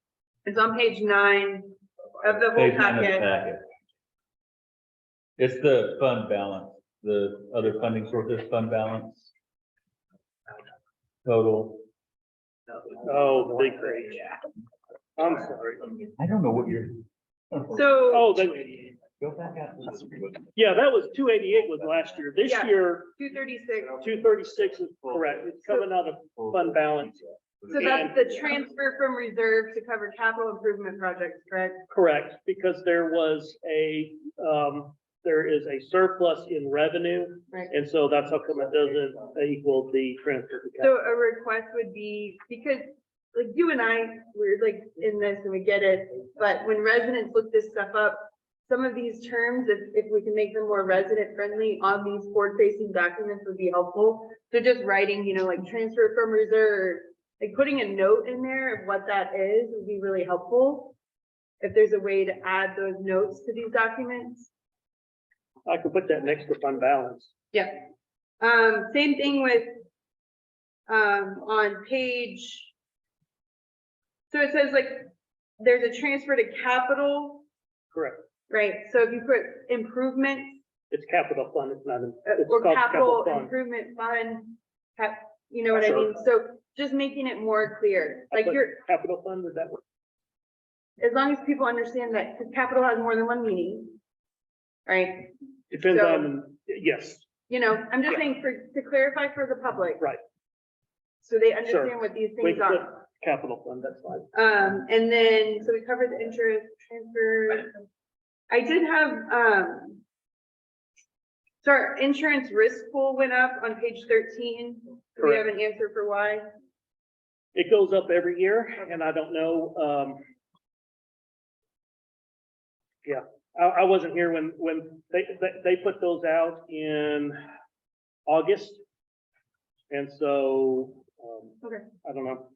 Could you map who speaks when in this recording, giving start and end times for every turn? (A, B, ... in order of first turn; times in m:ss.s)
0:00.4-0:03.3 A
0:02.5-0:03.6 B
0:05.4-0:09.3 B
0:11.2-0:11.8 B
0:12.9-0:14.3 C
0:15.2-0:15.8 C
0:16.2-0:18.1 B
0:17.7-0:18.3 A
0:18.1-0:18.9 C
0:19.2-0:20.4 B
0:20.5-0:23.1 C
0:22.4-0:24.1 A
0:24.0-0:28.4 C
0:27.7-0:31.8 A
0:31.9-0:40.9 C
0:40.8-1:01.0 A
1:01.6-1:04.5 A
1:05.6-1:07.3 C
1:07.5-1:07.8 A
1:08.4-1:09.7 A
1:10.9-1:12.7 A
1:14.3-1:17.4 A
1:17.9-1:18.2 C
1:18.5-1:20.6 A
1:20.9-1:23.5 C
1:22.2-1:28.8 A
1:25.7-1:26.2 C
1:28.3-1:29.8 C
1:31.0-1:33.9 A
1:34.8-1:35.3 A
1:35.7-1:37.3 C
1:35.9-1:36.3 A
1:37.5-1:40.0 A
1:41.2-1:42.9 A
1:41.6-1:44.3 C
1:44.3-1:47.7 A
1:48.5-1:50.0 A
1:51.6-1:56.4 A
1:55.2-1:55.4 C
1:57.5-2:00.2 C
2:03.0-2:07.4 C
2:08.3-2:08.8 C
2:09.9-2:12.4 C